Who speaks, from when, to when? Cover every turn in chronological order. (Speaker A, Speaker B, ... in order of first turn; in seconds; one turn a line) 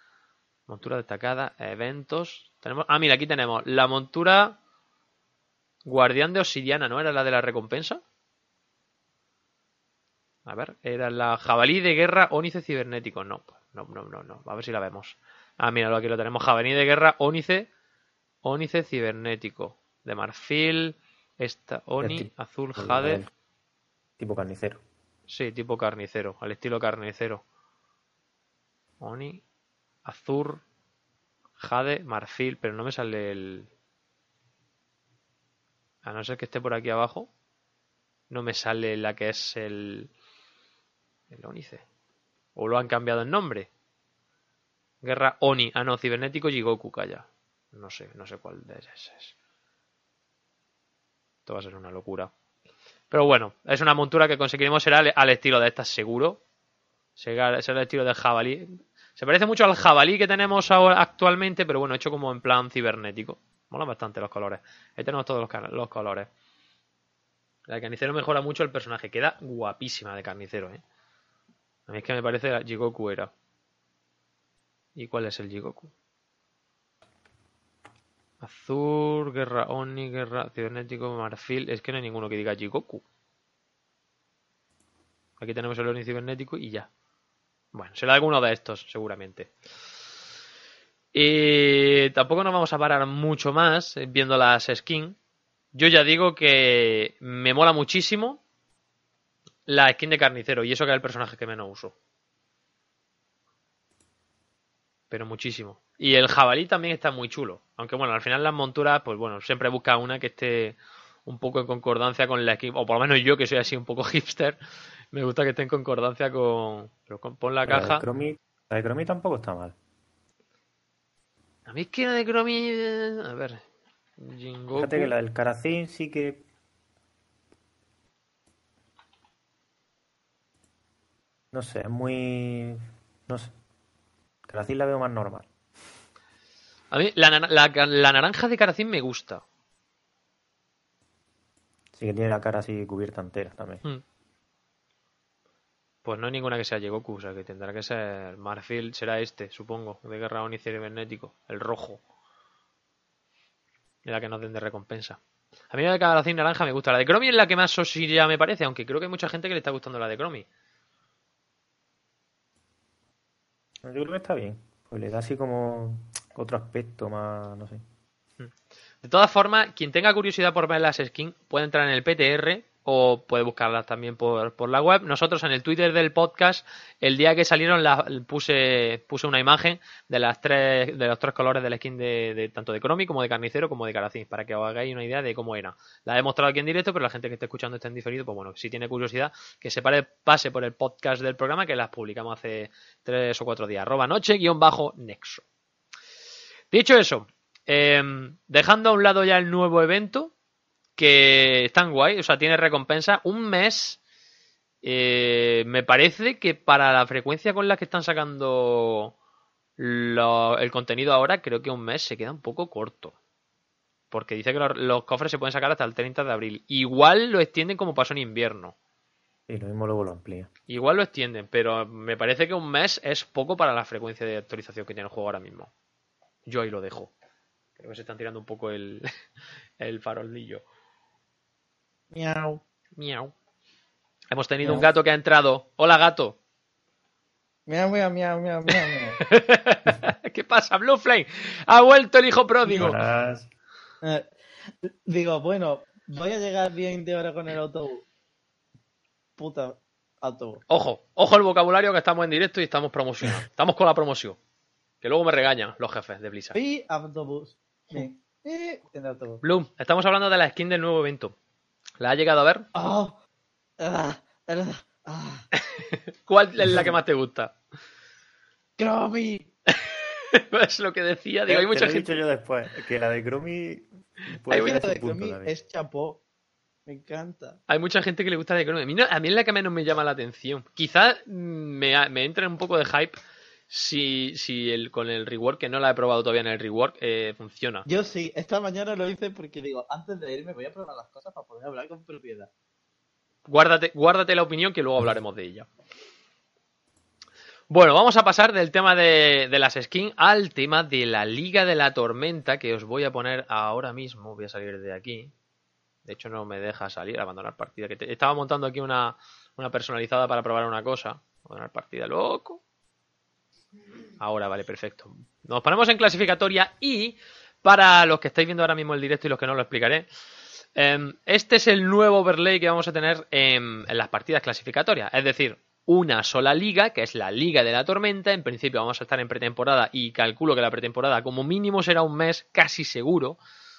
Speaker A: 0.7-4.6
Speaker A: 5.8-8.0
Speaker A: 10.4-17.7
Speaker A: 18.4-23.2
Speaker B: 22.0-23.3
Speaker B: 24.2-24.8
Speaker A: 25.3-27.4
Speaker A: 29.0-29.4
Speaker A: 30.0-30.6
Speaker A: 31.6-33.7
Speaker A: 36.0-37.3
Speaker A: 38.3-40.1
Speaker A: 41.3-41.8
Speaker A: 42.5-43.7
Speaker A: 45.0-49.3
Speaker A: 51.5-52.3
Speaker A: 53.1-56.4
Speaker A: 57.1-66.3
Speaker A: 67.7-70.8
Speaker A: 71.9-73.3
Speaker A: 75.0-75.9
Speaker A: 78.4-83.0
Speaker A: 85.4-86.9
Speaker A: 87.7-89.5
Speaker A: 91.1-95.2
Speaker A: 95.7-98.4
Speaker A: 99.7-101.9
Speaker A: 105.1-114.6
Speaker A: 115.1-118.0
Speaker B: 117.7-119.7
Speaker A: 121.7-123.6
Speaker A: 124.2-125.1
Speaker B: 124.7-126.4
Speaker B: 131.5-133.5
Speaker B: 134.5-135.5
Speaker A: 136.9-139.4
Speaker B: 141.9-143.8
Speaker A: 146.0-152.0
Speaker A: 154.0-155.2
Speaker A: 155.7-160.4
Speaker B: 163.8-167.8
Speaker A: 169.0-195.4
Speaker A: 196.7-200.3
Speaker A: 200.9-204.0
Speaker A: 204.8-209.1
Speaker A: 209.8-213.1
Speaker A: 214.1-218.7
Speaker B: 219.5-220.5
Speaker A: 220.7-225.7
Speaker A: 226.4-227.1
Speaker A: 227.8-229.1
Speaker A: 229.8-230.6
Speaker C: 232.1-232.6
Speaker A: 233.0-233.3
Speaker A: 234.3-236.3
Speaker C: 237.7-239.2
Speaker A: 239.2-242.9
Speaker B: 242.8-243.5
Speaker C: 244.8-248.0
Speaker C: 249.4-250.6
Speaker A: 250.7-254.4
Speaker A: 255.0-256.6
Speaker C: 256.5-259.4
Speaker A: 259.4-261.3
Speaker A: 262.0-262.7
Speaker C: 262.8-263.2
Speaker C: 263.8-265.5
Speaker A: 265.7-267.5
Speaker C: 268.8-269.5
Speaker A: 269.8-272.1
Speaker B: 271.5-275.5
Speaker C: 274.5-276.2
Speaker C: 276.9-277.6
Speaker A: 277.7-283.1
Speaker A: 283.7-287.9
Speaker C: 287.9-292.5
Speaker A: 293.5-295.7
Speaker A: 297.7-305.3
Speaker A: 306.1-312.6
Speaker A: 314.2-320.1
Speaker A: 320.8-333.4